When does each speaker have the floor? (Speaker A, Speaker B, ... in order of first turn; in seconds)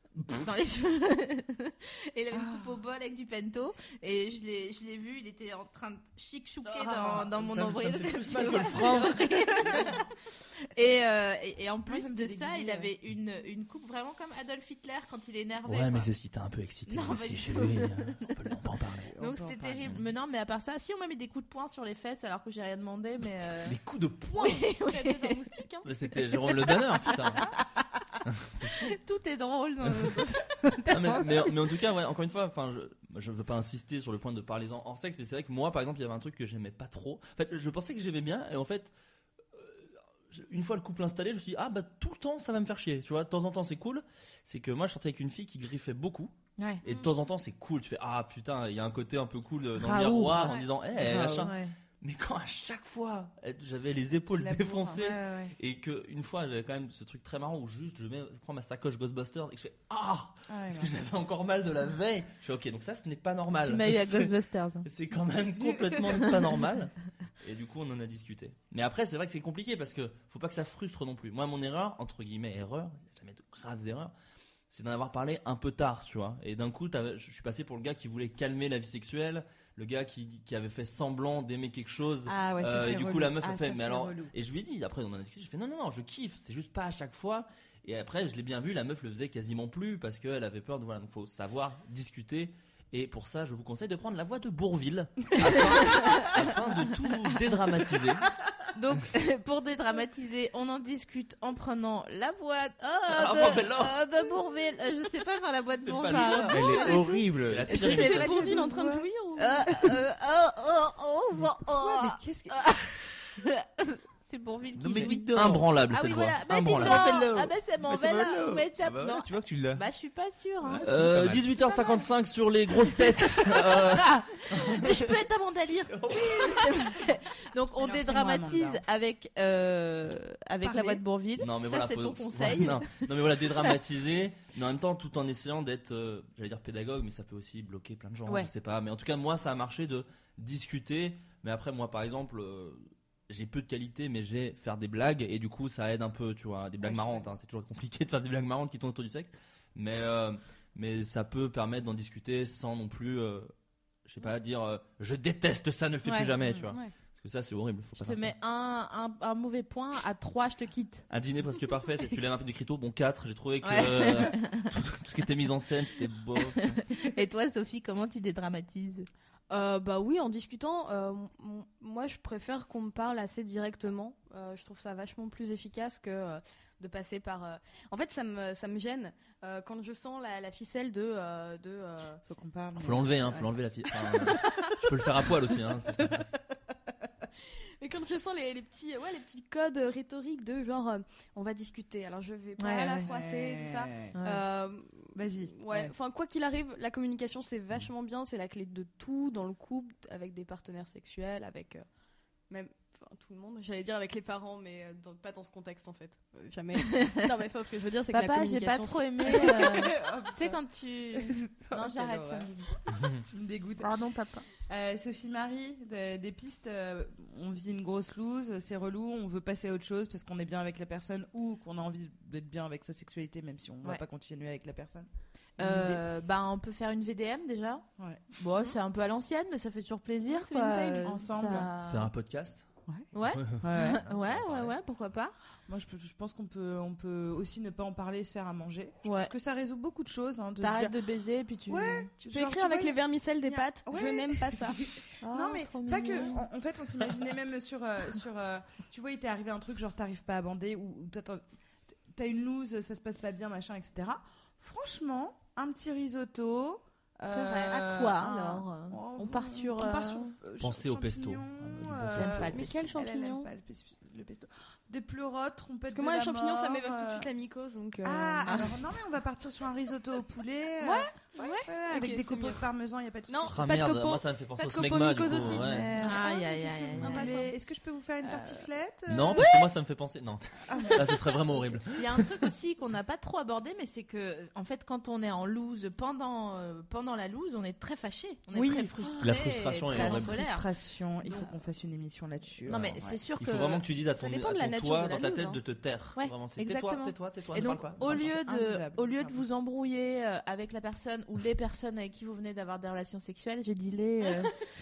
Speaker A: 0.3-10.1, 10.7-16.1, 16.9-18.4, 19.2-23.8, 24.4-25.4, 28.8-31.4, 46.6-46.8, 49.8-51.7, 55.0-55.5, 63.6-64.9, 95.8-96.3, 98.8-107.3, 109.4-120.9, 123.5-133.1, 156.1-156.3, 158.0-161.1, 163.6-164.7, 166.6-169.1, 192.6-193.1, 194.1-194.4, 206.9-207.2, 208.1-212.8, 213.8-214.4, 225.6-227.8, 228.4-232.1, 233.1-235.3, 239.0-239.3, 240.6-242.1, 245.2-246.4, 257.3-260.3, 262.1-262.9, 268.5-268.7, 276.0-277.5, 281.9-290.7, 291.2-291.5, 292.7-293.8, 296.2-304.6
Speaker B: 2.3-2.8, 6.8-7.3, 11.9-12.9, 19.0-19.9, 51.0-51.5, 54.3-55.2, 60.5-60.9, 82.2-84.3, 107.7-109.1, 111.8-112.7, 127.8-128.8, 130.6-131.0, 182.3-183.5, 193.1-194.1, 195.1-195.9, 209.2-210.6, 211.1-212.5, 213.2-214.0, 214.7-226.0, 228.0-228.2, 231.0-231.7, 233.6-234.0, 235.7-241.0, 241.7-251.4, 252.1-267.3, 268.0-273.6, 275.3-279.5, 280.7-281.2, 288.5-289.2, 289.9-293.2, 298.0-299.5
Speaker C: 7.3-9.8, 15.7-19.1, 23.7-24.6, 25.9-27.4, 28.3-28.9, 30.9-38.9, 39.5-46.3, 46.8-64.3, 64.8-74.1, 74.7-98.3, 103.1-104.0, 105.7-106.8, 107.5-108.6, 114.9-117.2, 120.8-125.0, 126.0-126.7, 131.4-153.5, 154.1-158.3, 161.1-166.7, 182.8-186.3, 231.8-232.7, 233.3-234.8, 260.6-262.6, 273.5-275.9, 279.1-282.0, 289.2-290.3, 292.7-298.3
Speaker D: 24.6-25.9, 107.7-109.6, 169.5-182.2, 187.8-201.8, 202.5-209.7, 230.3-231.7, 242.2-244.8, 262.5-263.5, 265.9-268.6, 270.8-272.6, 273.3-277.5, 278.3-278.6, 294.2-295.6
Speaker E: 106.3-107.8, 114.8-115.7, 116.7-119.8, 120.6-121.5